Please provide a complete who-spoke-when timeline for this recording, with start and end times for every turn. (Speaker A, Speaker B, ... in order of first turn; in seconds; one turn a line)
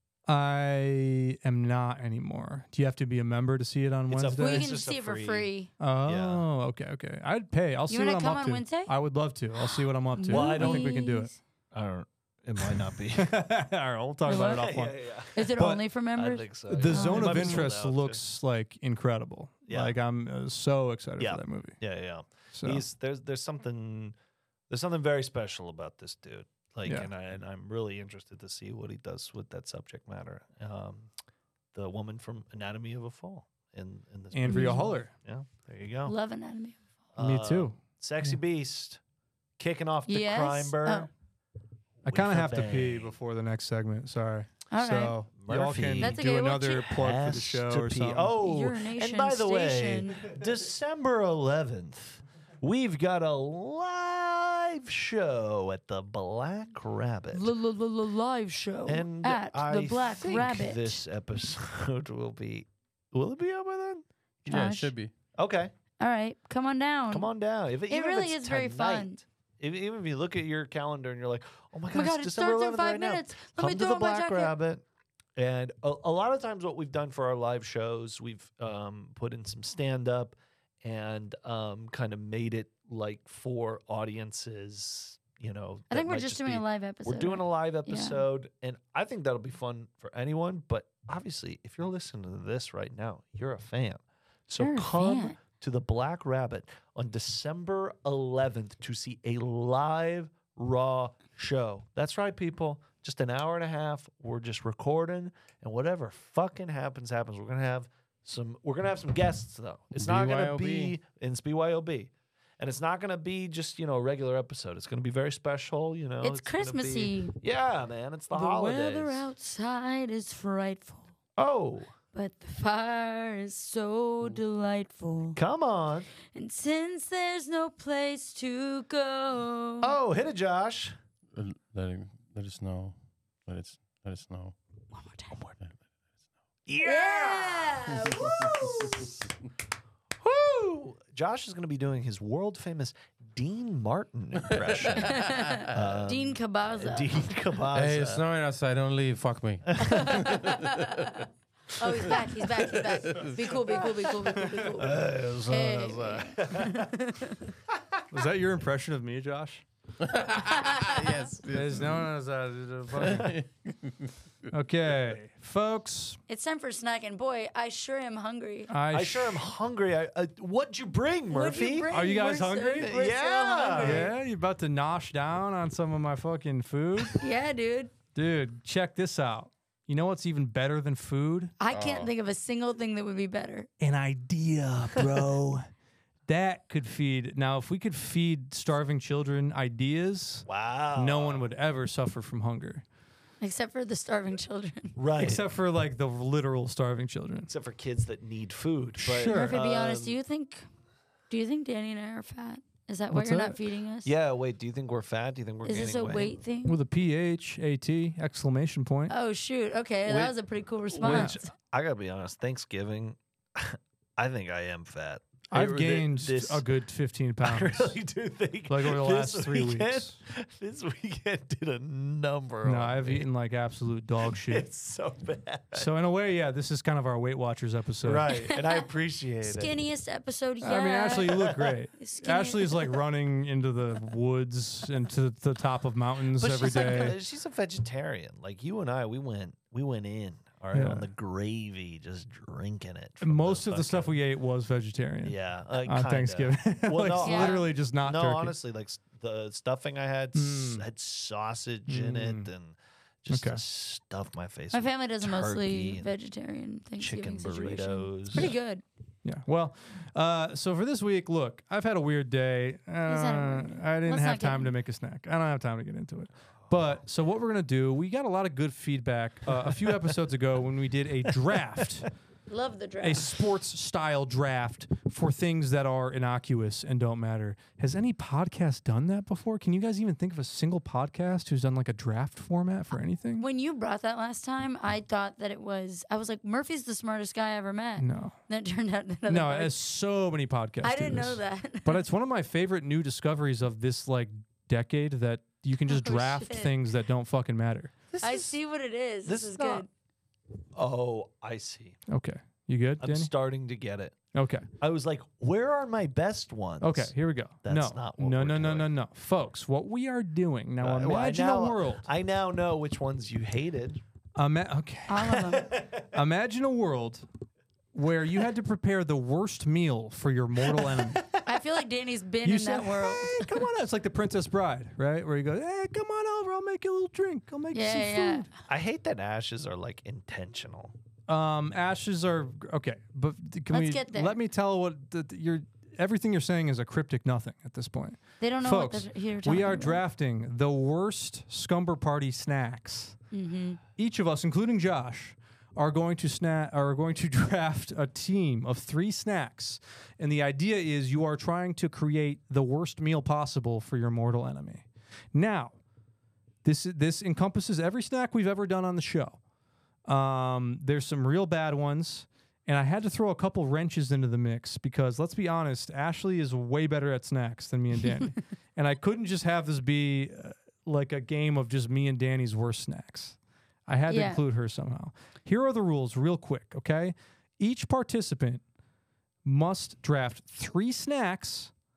Speaker A: 0.3-4.7
Speaker B: 4.1-5.5
Speaker C: 4.4-5.7
Speaker A: 5.8-11.3
Speaker B: 6.0-6.4
Speaker C: 7.9-8.9
Speaker C: 9.6-11.3
Speaker B: 10.3-10.9
Speaker B: 11.7-13.4
Speaker A: 12.7-15.8
Speaker C: 14.2-14.8
Speaker B: 14.3-15.5
Speaker C: 15.3-17.7
Speaker B: 16.1-18.2
Speaker A: 16.7-21.8
Speaker B: 19.7-19.9
Speaker B: 21.2-24.1
Speaker A: 22.5-22.8
Speaker B: 24.7-31.1
Speaker B: 31.7-36.1
Speaker A: 34.3-35.1
Speaker C: 34.5-34.9
Speaker C: 36.0-36.8
Speaker B: 37.1-39.0
Speaker A: 37.2-38.4
Speaker B: 39.6-41.1
Speaker C: 40.1-41.1
Speaker B: 42.0-43.1
Speaker A: 42.0-48.3
Speaker C: 44.7-45.1
Speaker B: 45.4-46.2
Speaker C: 46.0-46.9
Speaker B: 46.7-57.5
Speaker C: 48.4-50.2
Speaker C: 57.3-61.0
Speaker B: 58.9-64.0
Speaker C: 64.5-64.9
Speaker D: 64.5-65.1
Speaker B: 65.3-65.7
Speaker C: 66.0-67.3
Speaker B: 67.1-74.8
Speaker C: 67.9-69.2
Speaker C: 71.9-74.5
Speaker B: 75.3-119.3
Speaker C: 85.9-88.2
Speaker C: 94.6-95.4
Speaker D: 109.9-110.9
Speaker C: 116.2-117.3
Speaker C: 118.3-121.1
Speaker B: 121.4-121.9
Speaker C: 122.1-125.4
Speaker B: 125.3-126.1
Speaker C: 126.3-129.9
Speaker B: 129.8-130.9
Speaker D: 131.3-134.5
Speaker C: 134.9-135.3
Speaker B: 136.7-139.2
Speaker C: 136.8-138.8
Speaker D: 138.2-138.7
Speaker B: 140.2-148.2
Speaker C: 144.9-147.2
Speaker D: 147.7-151.2
Speaker B: 149.8-150.2
Speaker C: 149.8-151.1
Speaker C: 151.8-157.5
Speaker D: 152.1-153.9
Speaker B: 154.8-156.9
Speaker A: 158.1-159.6
Speaker D: 160.0-162.1
Speaker C: 160.5-161.3
Speaker A: 161.5-163.3
Speaker D: 163.0-164.1
Speaker A: 164.5-166.2
Speaker C: 166.3-168.7
Speaker A: 168.7-169.5
Speaker B: 168.9-171.9
Speaker C: 171.3-174.1
Speaker A: 171.9-172.9
Speaker B: 172.8-174.1
Speaker A: 173.8-177.2
Speaker C: 177.1-177.9
Speaker A: 178.1-181.5
Speaker C: 181.6-183.7
Speaker D: 181.7-182.1
Speaker A: 183.8-185.6
Speaker A: 186.3-192.8
Speaker B: 190.4-191.4
Speaker C: 193.4-194.9
Speaker B: 194.9-195.4
Speaker A: 195.2-197.5
Speaker B: 197.5-200.2
Speaker A: 199.0-199.5
Speaker C: 199.3-200.7
Speaker C: 201.3-204.1
Speaker A: 203.1-203.6
Speaker B: 204.0-206.4
Speaker C: 205.6-206.8
Speaker A: 206.6-209.1
Speaker C: 209.1-211.5
Speaker B: 210.1-210.3
Speaker B: 210.9-216.6
Speaker A: 211.0-211.4
Speaker A: 215.5-217.9
Speaker B: 217.4-223.3
Speaker A: 218.7-220.2
Speaker A: 222.6-224.7
Speaker B: 224.2-225.9
Speaker A: 225.7-228.3
Speaker B: 228.0-229.7
Speaker C: 228.3-228.8
Speaker C: 229.4-233.0
Speaker A: 230.6-237.2
Speaker B: 231.3-231.7
Speaker B: 236.3-244.1
Speaker C: 236.6-237.1
Speaker A: 240.7-241.1
Speaker A: 243.2-248.5
Speaker B: 245.2-256.1
Speaker C: 247.2-247.7
Speaker A: 250.3-250.8
Speaker A: 251.9-252.5
Speaker A: 253.3-253.6
Speaker C: 254.7-258.8
Speaker B: 257.0-258.5
Speaker A: 259.2-272.1
Speaker C: 263.1-264.7
Speaker B: 269.5-270.1
Speaker B: 271.3-271.9
Speaker C: 272.5-273.3
Speaker A: 273.0-283.4
Speaker C: 283.4-289.8
Speaker A: 288.0-288.4
Speaker A: 289.3-297.9
Speaker C: 290.8-292.0
Speaker C: 295.9-296.7
Speaker B: 298.1-298.6
Speaker C: 298.2-299.9
Speaker B: 299.2-299.8
Speaker B: 300.7-302.0
Speaker A: 302.1-303.3
Speaker B: 303.0-304.1
Speaker A: 304.3-304.7
Speaker B: 304.8-307.1
Speaker A: 306.8-312.0
Speaker B: 307.6-308.9
Speaker B: 310.8-314.0
Speaker A: 314.4-315.5
Speaker C: 315.1-315.7
Speaker B: 315.5-316.1
Speaker A: 316.0-317.2
Speaker A: 317.9-321.2
Speaker B: 320.6-321.6
Speaker C: 321.4-323.6
Speaker A: 322.4-328.5
Speaker C: 327.7-328.5
Speaker B: 328.7-330.9
Speaker A: 331.3-343.2
Speaker C: 333.7-334.4
Speaker C: 338.4-340.0
Speaker C: 343.3-343.8
Speaker A: 344.0-355.7
Speaker A: 356.6-359.4
Speaker A: 360.1-378.6
Speaker C: 374.1-374.4
Speaker A: 379.4-381.7